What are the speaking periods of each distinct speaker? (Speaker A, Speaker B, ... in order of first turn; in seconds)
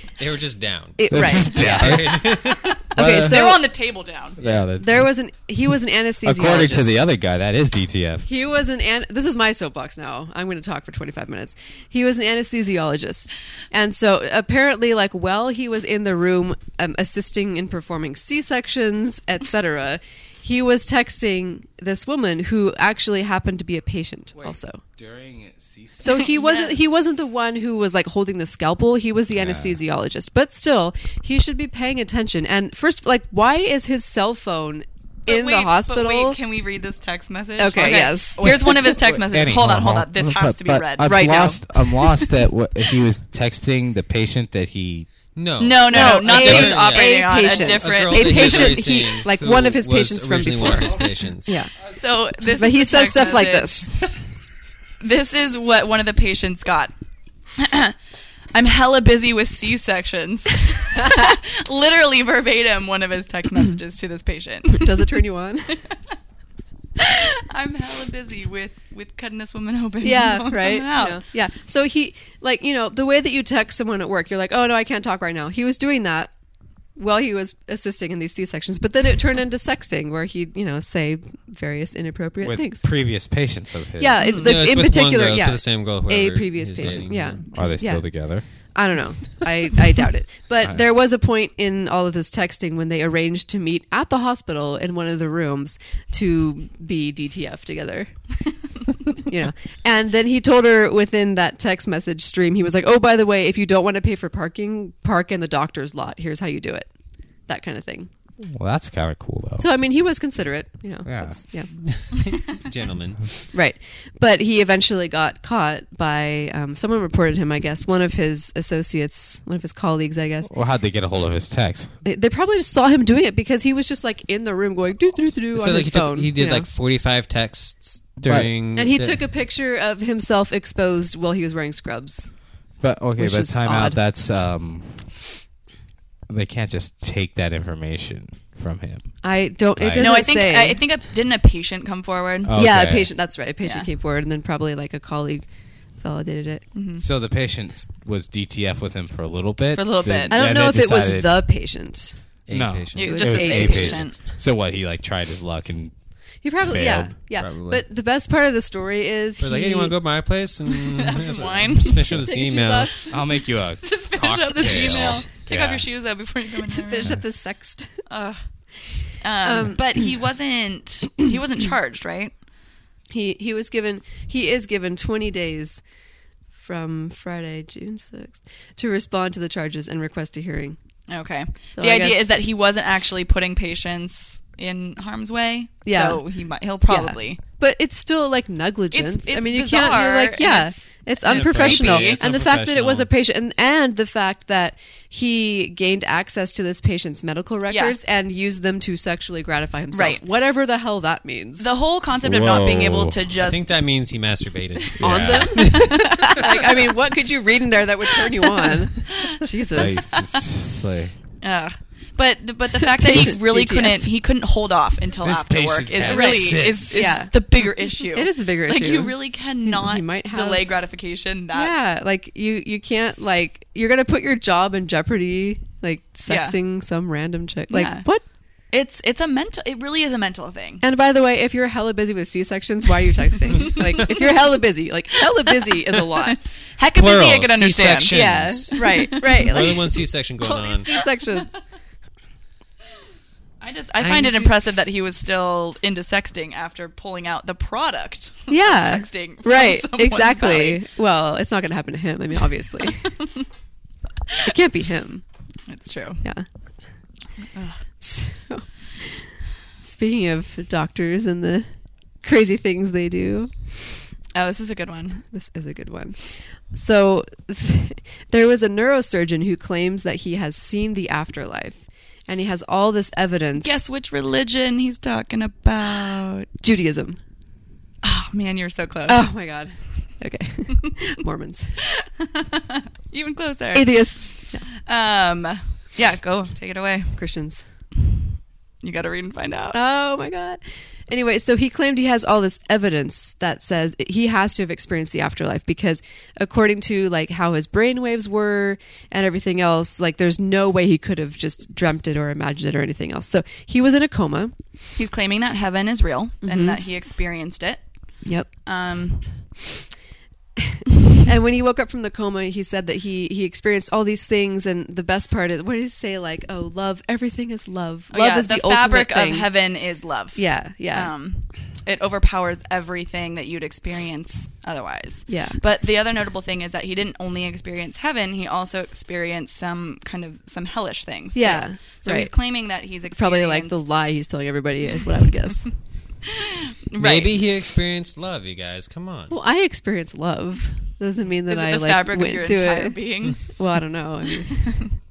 Speaker A: 0.2-2.8, 4.4-4.7, 45.4-51.7, 84.3-87.4, 111.8-113.4, 125.5-129.2, 152.5-154.0, 157.4-157.8, 159.4-162.9, 164.6-165.8, 191.2-193.1, 203.3-206.2, 236.9-240.9, 337.0-339.3
Speaker B: 1.0-2.0, 2.9-3.6, 4.8-6.9, 8.3-24.8, 26.0-36.4, 37.6-38.9, 41.0-41.6, 45.9-51.7, 52.6-54.0, 61.0-61.3, 64.7-65.8, 70.0-76.3, 77.0-82.9, 84.0-98.1, 99.2-106.9, 107.5-108.1, 109.6-111.7, 113.5-120.5, 122.0-126.7, 128.8-132.3, 133.2-134.0, 139.2-140.8, 142.5-145.5, 146.0-146.6, 150.3-152.2, 153.0-154.0, 156.4-159.9, 162.1-163.2, 166.7-168.0, 169.4-169.8, 173.1-175.8, 176.6-180.8, 181.7-182.2, 185.8-186.2, 186.9-201.7, 205.0-210.1, 212.8-214.1, 216.0-220.7, 221.5-228.2, 230.8-236.4, 238.1-239.9, 240.7-241.5, 244.0-244.5, 248.5-253.2, 254.4-255.2, 258.0-261.7, 262.2-263.5, 265.3-273.8, 276.6-277.2, 279.1-281.8, 283.7-284.7, 287.1-287.6, 289.7-304.6, 306.4-306.8, 308.2-308.5, 310.6-319.5, 320.4-321.1, 325.3-325.6, 331.4-332.3, 333.1-335.7, 339.3-344.9
Speaker C: 1.1-2.4, 3.0-3.5, 4.4-5.1, 6.2-8.3, 24.4-26.3, 29.3-29.8, 37.9-45.1, 46.4-46.7, 50.6-51.1, 82.4-84.3, 86.8-88.5, 108.4-109.7, 111.1-111.4, 120.5-121.9, 128.2-128.5, 132.8-135.3, 136.3-139.1, 139.8-140.1, 142.4-143.1, 147.0-151.4, 152.5-155.9, 156.6-157.2, 163.1-165.3, 202.2-203.2, 205.0-205.5, 209.7-211.1, 215.2-217.2
Speaker D: 1.5-4.4, 26.2-26.8, 35.3-42.2, 45.6-48.8, 51.9-54.0, 55.0-56.9, 57.6-58.0, 58.5-65.2, 67.0-71.2, 139.9-142.6, 146.8-147.0, 149.7-150.5, 152.9-154.2, 160.8-162.2, 163.8-167.1, 168.1-168.4, 169.2-172.3, 181.1-187.4, 188.9-190.8, 191.4-192.2, 197.7-197.9, 199.9-200.2, 201.6-203.7, 205.7-206.5, 208.6-210.4, 211.4-221.7, 226.3-226.6, 227.7-228.1, 228.7-230.8, 235.5-239.7, 240.4-241.4, 243.6-250.8, 252.8-253.4, 255.7-256.2, 257.5-257.8, 264.3-265.2, 273.6-276.5, 278.0-279.3, 282.0-287.2, 288.8-289.8, 305.0-307.8, 308.6-309.5, 318.1-333.9, 336.2-337.4, 341.5-343.6, 344.5-344.9